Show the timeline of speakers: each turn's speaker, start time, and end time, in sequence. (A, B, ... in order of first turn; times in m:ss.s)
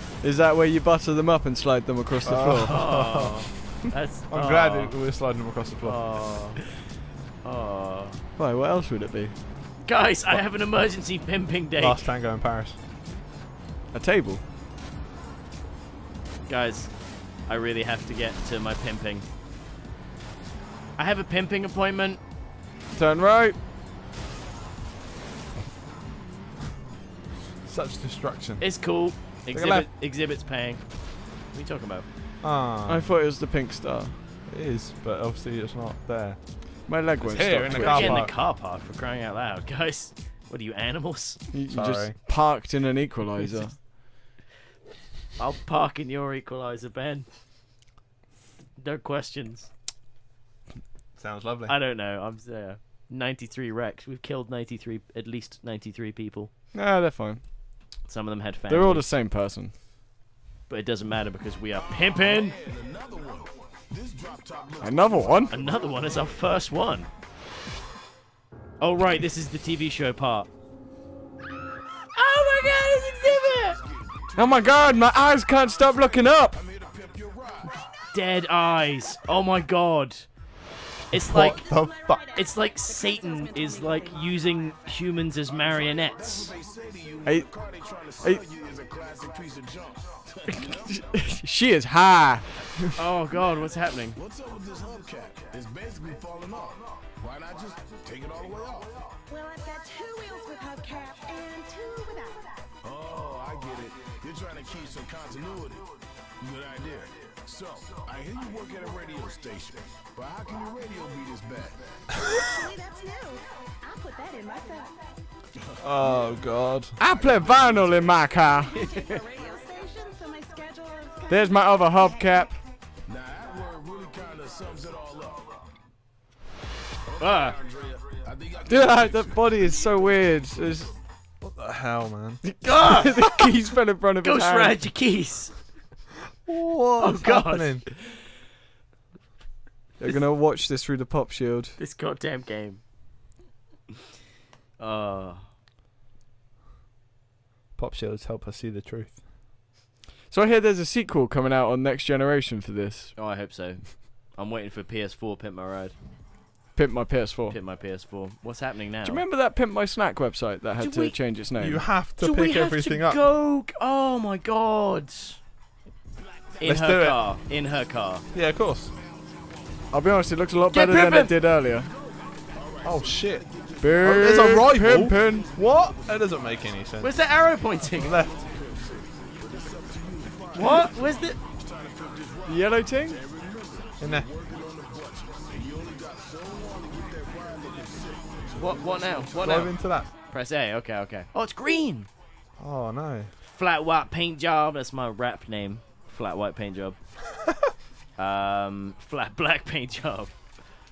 0:00.2-0:03.0 A
0:02.2-0:03.7 B
0:02.7-0:05.0 C
0:04.3-0:06.4 B
0:05.8-0:06.8 C
0:07.4-0:08.2 C
0:08.4-0:09.4 A
0:09.8-0:12.1 C
0:11.8-0:12.8 B
0:13.9-0:14.4 A
0:16.5-0:19.2 C
0:21.0-0:22.2 C
0:22.9-0:23.6 A
0:27.6-0:28.8 B
0:28.6-0:32.0 C
0:29.5-0:29.9 B
0:32.4-0:33.0 B
0:32.8-0:34.2 A
0:34.5-0:38.3 B
0:36.8-0:38.2 A
0:37.7-0:41.4 C
0:41.5-0:43.8 A
0:41.7-0:42.2 B
0:45.4-0:47.3 C
0:48.8-0:49.7 C
0:51.2-0:51.7 B
0:51.7-0:56.5 C
0:56.7-0:57.4 A
0:58.0-0:59.1 C
0:58.7-0:59.7 A
1:00.7-1:02.6 C
1:01.8-1:06.3 D
1:04.8-1:05.5 A
1:05.5-1:07.1 C
1:08.8-1:10.5 C
1:12.1-1:13.8 C
1:13.5-1:14.7 D
1:14.3-1:16.6 A
1:16.5-1:17.8 D
1:18.1-1:20.4 C
1:21.1-1:21.7 C
1:21.1-1:22.2 B
1:21.5-1:24.7 E
1:22.3-1:26.5 C
1:26.1-1:31.0 D
1:27.2-1:27.5 A
1:30.5-1:33.0 A
1:33.0-1:34.2 C
1:34.2-1:39.0 D
1:39.3-1:42.6 E
1:42.8-1:51.8 D
1:52.4-1:54.9 E
1:55.8-1:56.9 B
1:56.0-1:56.3 D
1:57.0-1:58.7 A
1:57.2-1:57.7 D
1:58.7-2:02.5 E
1:58.7-1:59.2 C
2:01.3-2:02.6 A
2:03.1-2:05.6 D
2:07.1-2:10.1 D
2:07.2-2:07.6 C
2:08.6-2:10.9 A
2:11.4-2:12.4 B
2:12.4-2:14.8 A
2:12.6-2:13.3 C
2:14.2-2:15.6 C
2:16.4-2:17.9 B
2:17.0-2:18.2 C
2:20.0-2:21.8 A
2:21.8-2:22.8 C
2:24.8-2:25.5 C
2:27.8-2:29.2 B
2:30.3-2:33.1 A
2:33.2-2:35.9 C
2:36.7-2:37.6 A
2:37.5-2:39.2 C
2:39.0-2:41.9 A
2:40.8-2:41.2 C
2:41.6-2:43.2 B
2:42.2-2:45.4 C
2:46.6-2:48.2 C
2:46.6-2:47.2 B
2:48.3-2:48.9 B
2:49.9-2:51.9 A
2:50.7-2:51.3 C
2:52.5-2:55.8 D
2:52.8-2:53.5 B
2:53.8-2:55.5 A
2:54.0-2:57.1 B
2:57.0-2:58.2 C
2:58.0-2:58.3 B
2:58.0-3:09.3 D
3:00.5-3:01.4 C
3:02.4-3:03.2 A
3:04.0-3:04.3 B
3:08.6-3:12.1 C
3:09.4-3:10.1 B
3:12.6-3:13.3 B
3:13.4-3:17.0 C
3:18.2-3:20.4 C